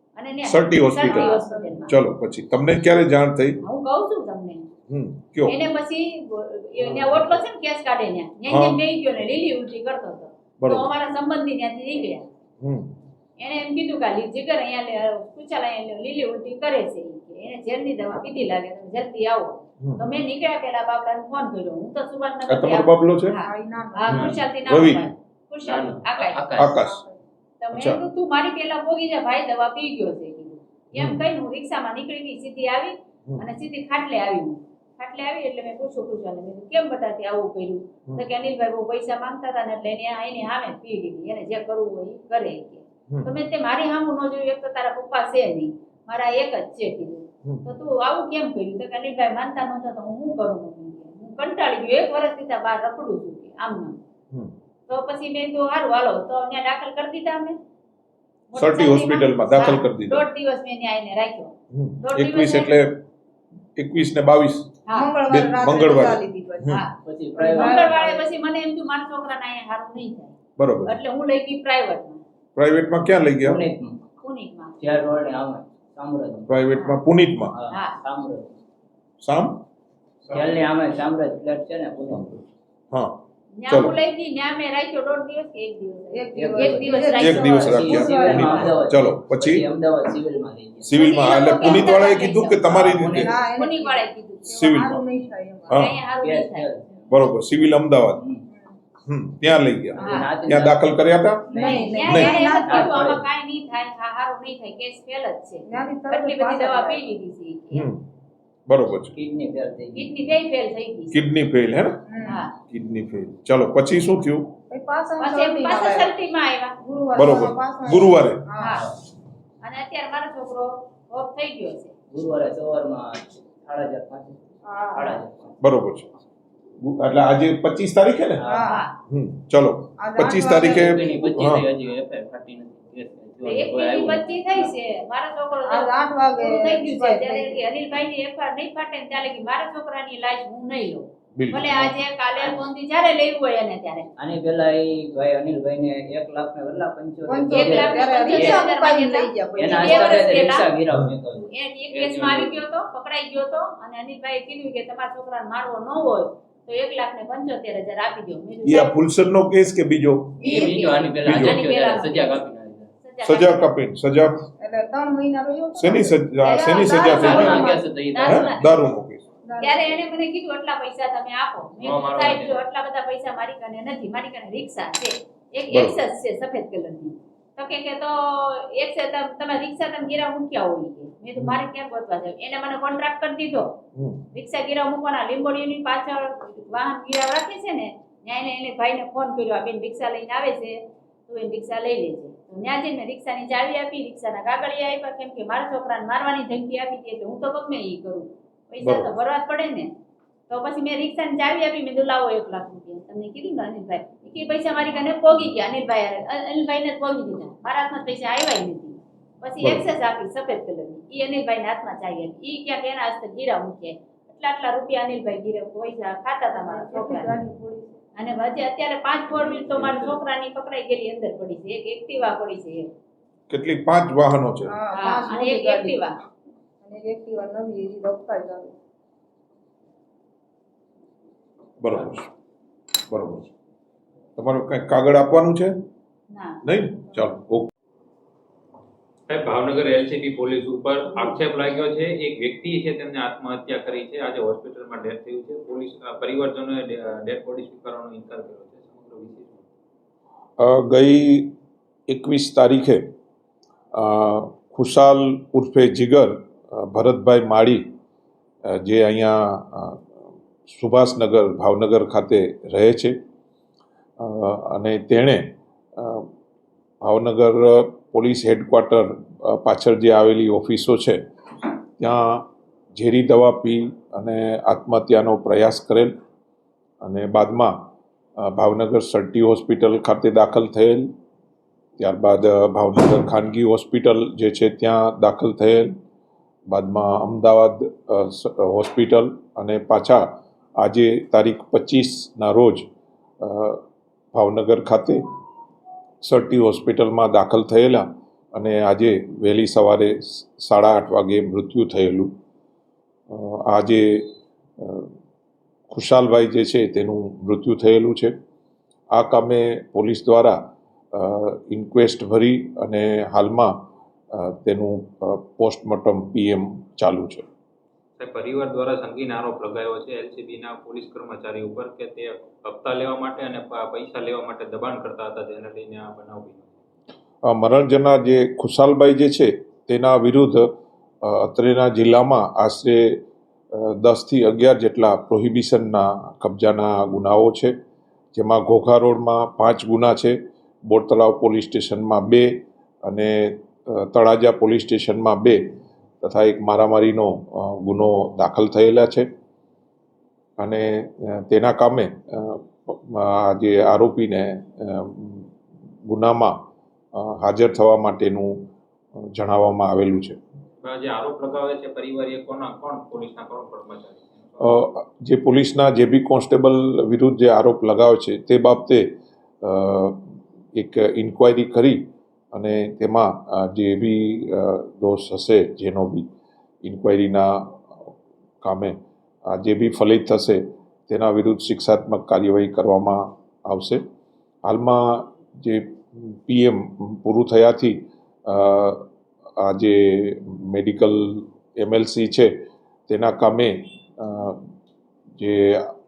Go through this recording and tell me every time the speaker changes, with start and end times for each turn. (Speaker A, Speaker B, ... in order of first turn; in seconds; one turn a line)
Speaker A: 0.1-1.9
Speaker B: 0.4-1.3
Speaker C: 0.9-1.9
Speaker B: 1.9-3.6
Speaker A: 3.6-4.7
Speaker B: 4.9-5.6
Speaker A: 5.5-12.3
Speaker B: 8.5-8.8
Speaker B: 10.6-10.9
Speaker B: 12.6-12.9
Speaker A: 13.4-26.5
Speaker B: 22.4-23.4
Speaker C: 23.4-24.4
Speaker B: 24.1-25.1
Speaker D: 25.6-26.7
Speaker B: 26.6-27.0
Speaker C: 26.7-27.2
Speaker A: 27.6-54.0
Speaker B: 27.7-28.0
Speaker B: 30.9-31.2
Speaker A: 54.9-57.6
Speaker A: 58.5-62.8
Speaker B: 58.5-60.2
Speaker B: 61.7-63.0
Speaker B: 63.8-64.7
Speaker A: 64.9-65.2
Speaker C: 64.9-66.8
Speaker B: 65.3-66.9
Speaker A: 66.7-72.2
Speaker D: 67.0-68.0
Speaker C: 67.3-68.3
Speaker B: 70.6-71.0
Speaker B: 72.5-73.6
Speaker D: 73.4-74.0
Speaker A: 74.2-74.8
Speaker D: 74.8-76.5
Speaker B: 76.5-77.6
Speaker D: 77.5-78.6
Speaker A: 77.7-78.0
Speaker B: 79.2-79.6
Speaker D: 80.3-82.3
Speaker B: 82.1-83.2
Speaker A: 83.6-87.9
Speaker B: 83.7-84.0
Speaker C: 86.1-88.8
Speaker D: 86.3-93.4
Speaker B: 87.2-89.6
Speaker B: 90.8-93.4
Speaker A: 91.0-92.8
Speaker C: 93.1-95.8
Speaker A: 93.4-94.9
Speaker B: 94.5-95.0
Speaker B: 95.7-96.0
Speaker A: 95.7-96.7
Speaker D: 96.2-97.1
Speaker B: 97.1-98.2
Speaker C: 98.5-98.8
Speaker B: 99.1-101.5
Speaker D: 100.0-100.9
Speaker A: 100.0-100.3
Speaker C: 100.0-100.3
Speaker C: 101.5-103.0
Speaker D: 101.5-103.2
Speaker A: 101.5-107.8
Speaker B: 102.1-102.3
Speaker C: 105.7-107.1
Speaker B: 107.7-108.0
Speaker B: 108.7-109.1
Speaker D: 109.1-110.3
Speaker A: 109.9-111.2
Speaker B: 111.1-112.0
Speaker C: 112.1-112.4
Speaker A: 112.2-112.5
Speaker B: 112.7-114.5
Speaker C: 114.7-116.1
Speaker A: 115.2-116.8
Speaker C: 116.8-118.8
Speaker B: 117.2-118.4
Speaker A: 118.6-118.8
Speaker A: 119.6-121.9
Speaker D: 122.1-125.6
Speaker C: 124.6-125.2
Speaker B: 125.6-126.1
Speaker B: 126.8-128.4
Speaker D: 128.4-128.8
Speaker C: 128.4-128.8
Speaker A: 128.6-128.9
Speaker B: 129.1-131.6
Speaker C: 130.0-131.0
Speaker D: 130.6-134.7
Speaker A: 133.4-144.1
Speaker C: 135.6-137.6
Speaker B: 141.3-141.9
Speaker D: 144.2-148.7
Speaker C: 147.2-150.3
Speaker A: 147.5-150.7
Speaker D: 149.6-152.6
Speaker A: 151.5-158.9
Speaker B: 158.6-160.4
Speaker D: 160.4-162.9
Speaker A: 160.4-162.4
Speaker B: 161.2-161.6
Speaker A: 163.0-163.7
Speaker B: 163.2-164.5
Speaker C: 164.6-167.9
Speaker B: 165.8-169.3
Speaker A: 166.4-168.7
Speaker D: 167.0-168.5
Speaker C: 169.4-170.1
Speaker A: 169.6-183.8
Speaker D: 171.8-172.6
Speaker B: 175.7-176.0
Speaker B: 181.3-181.6
Speaker B: 183.9-184.2
Speaker A: 184.3-199.9
Speaker B: 198.8-199.1
Speaker A: 200.5-217.4
Speaker B: 209.6-209.9
Speaker C: 216.6-218.0
Speaker A: 218.2-222.9
Speaker D: 219.3-220.2
Speaker B: 223.5-224.7
Speaker C: 224.7-226.1
Speaker A: 224.9-226.2
Speaker C: 226.8-228.7
Speaker B: 231.8-232.3
Speaker B: 233.1-233.5
Speaker B: 234.4-235.8
Speaker A: 236.3-236.6
Speaker B: 236.6-237.7
Speaker E: 239.3-249.7
Speaker B: 250.6-251.6
Speaker B: 252.1-253.1
Speaker B: 253.9-257.9
Speaker B: 258.6-260.0
Speaker B: 260.7-263.2
Speaker B: 264.2-266.3
Speaker B: 267.0-271.2
Speaker B: 272.0-276.1
Speaker B: 277.0-281.1
Speaker B: 282.0-285.9
Speaker B: 286.7-292.9
Speaker B: 293.4-295.2
Speaker B: 296.2-302.3
Speaker B: 303.3-305.1
Speaker B: 305.9-308.3
Speaker B: 309.1-317.5
Speaker E: 318.2-326.8
Speaker B: 327.4-330.6
Speaker B: 331.2-337.7
Speaker B: 338.3-349.3
Speaker B: 350.6-355.5
Speaker B: 356.1-356.6
Speaker B: 357.1-358.7
Speaker B: 359.3-360.4
Speaker E: 360.8-364.6
Speaker B: 364.6-370.2
Speaker B: 370.7-376.3
Speaker B: 376.8-377.8
Speaker B: 378.6-384.0
Speaker B: 384.6-392.6
Speaker B: 393.1-394.6
Speaker B: 395.4-395.9